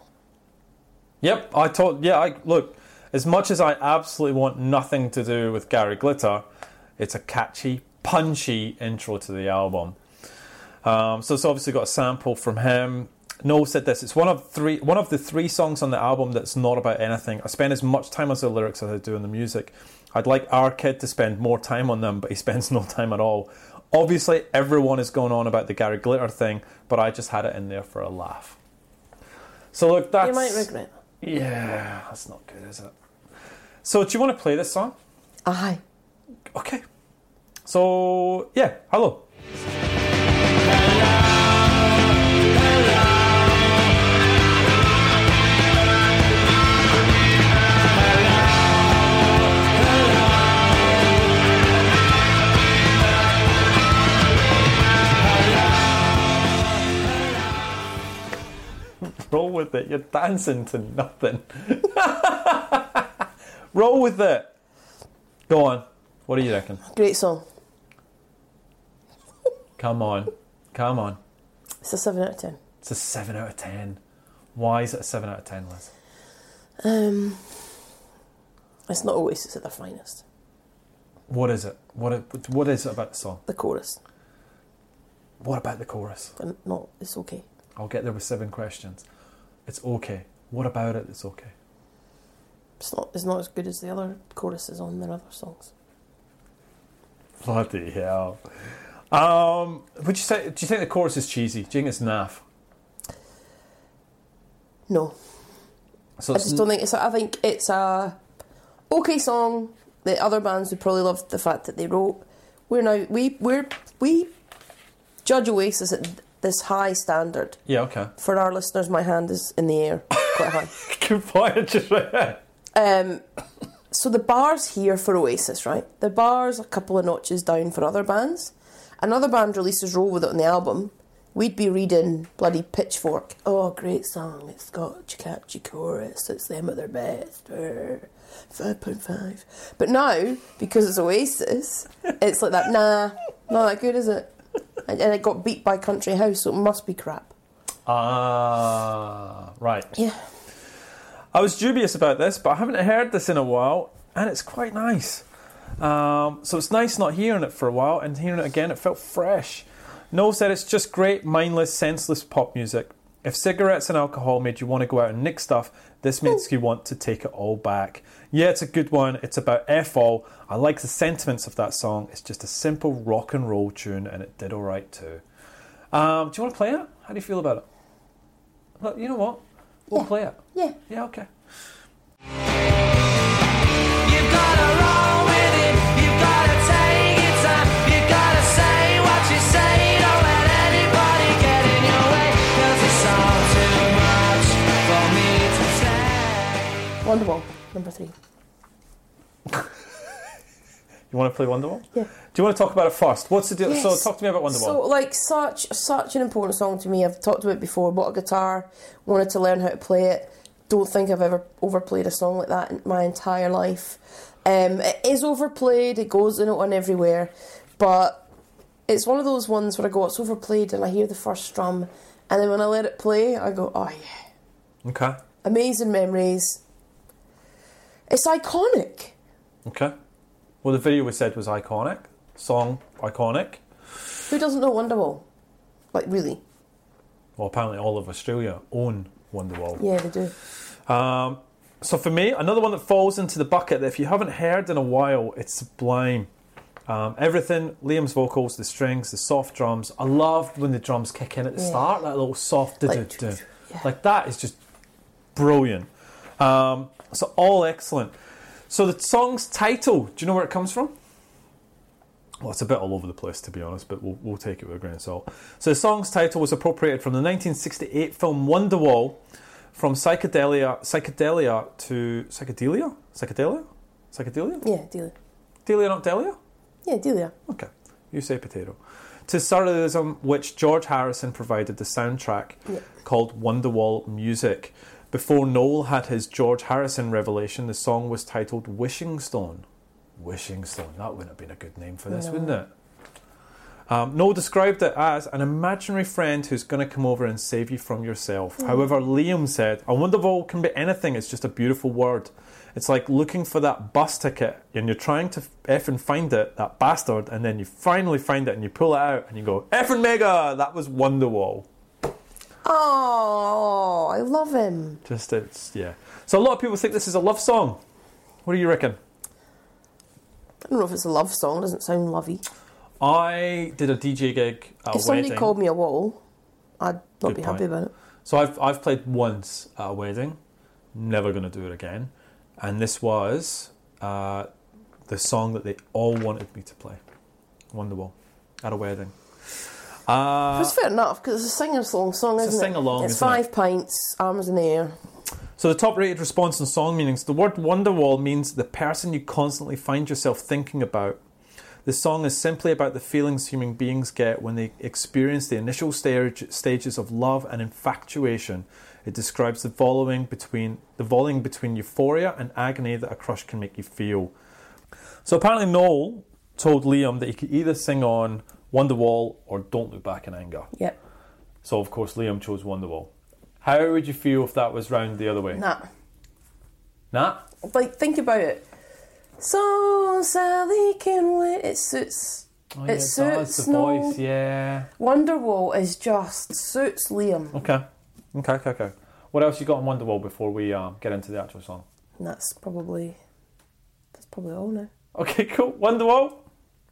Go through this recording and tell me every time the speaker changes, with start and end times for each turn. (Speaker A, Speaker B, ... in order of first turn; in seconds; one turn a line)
Speaker A: 1.2-6.4
Speaker A: 7.0-10.0
Speaker A: 10.8-28.6
Speaker A: 29.7-30.7
Speaker B: 30.2-30.9
Speaker A: 31.2-32.9
Speaker A: 33.8-35.0
Speaker B: 35.5-35.8
Speaker A: 36.5-36.8
Speaker A: 37.6-39.3
Speaker C: 40.6-43.8
Speaker C: 48.0-50.8
Speaker A: 59.0-64.5
Speaker A: 65.5-66.8
Speaker B: 66.8-67.5
Speaker A: 69.8-71.2
Speaker B: 71.8-72.6
Speaker A: 72.8-74.0
Speaker A: 74.5-75.9
Speaker B: 76.8-77.6
Speaker B: 78.9-80.2
Speaker A: 81.3-83.4
Speaker B: 83.5-84.0
Speaker A: 85.4-86.3
Speaker B: 86.4-87.4
Speaker A: 87.8-89.0
Speaker A: 89.7-91.5
Speaker B: 92.8-95.7
Speaker A: 97.4-102.4
Speaker B: 104.9-105.2
Speaker A: 106.2-106.7
Speaker B: 106.3-108.2
Speaker B: 108.9-114.3
Speaker B: 115.2-117.6
Speaker A: 117.7-118.1
Speaker B: 118.2-120.7
Speaker A: 120.2-122.4
Speaker B: 122.8-123.2
Speaker B: 123.9-144.3
Speaker B: 144.8-147.3
Speaker A: 147.9-149.9
Speaker B: 149.9-150.2
Speaker A: 151.3-155.2
Speaker A: 155.8-175.2
Speaker A: 175.9-177.7
Speaker A: 178.8-181.3
Speaker B: 179.9-180.8
Speaker C: 184.0-196.9
Speaker B: 197.0-198.2
Speaker A: 199.5-199.7
Speaker A: 201.1-204.8
Speaker B: 203.7-218.2
Speaker B: 218.9-224.2
Speaker A: 224.8-225.2
Speaker B: 225.4-226.6
Speaker B: 228.1-229.2
Speaker A: 229.7-229.9
Speaker A: 230.6-233.6
Speaker B: 234.3-235.2
Speaker B: 235.9-236.4
Speaker A: 237.4-239.8
Speaker B: 239.8-240.3
Speaker A: 240.9-246.3
Speaker A: 246.9-254.6
Speaker B: 252.9-253.8
Speaker A: 255.3-258.1
Speaker A: 258.7-260.9
Speaker A: 262.4-269.2
Speaker A: 269.7-274.6
Speaker B: 274.6-275.1
Speaker A: 275.6-276.4
Speaker B: 276.9-277.3
Speaker A: 277.5-289.6
Speaker A: 290.2-292.7
Speaker B: 292.1-292.6
Speaker A: 293.9-311.7
Speaker B: 312.6-315.0
Speaker A: 315.1-317.8
Speaker A: 318.4-319.0
Speaker B: 320.6-322.4
Speaker A: 323.0-325.5
Speaker B: 324.9-326.2
Speaker B: 326.8-327.9
Speaker A: 327.2-327.6
Speaker A: 328.2-330.4
Speaker A: 330.9-334.5
Speaker A: 335.1-337.0
Speaker A: 337.7-340.8
Speaker B: 340.5-345.0
Speaker A: 342.4-343.4
Speaker A: 345.6-351.2
Speaker A: 351.9-364.3
Speaker A: 365.2-370.7
Speaker A: 371.6-375.6
Speaker B: 375.5-375.9
Speaker A: 377.1-377.4
Speaker B: 377.6-378.6
Speaker B: 379.4-384.2
Speaker A: 382.8-384.9
Speaker B: 385.0-387.7
Speaker A: 387.5-391.9
Speaker B: 392.2-393.2
Speaker B: 394.2-394.9
Speaker A: 395.1-396.4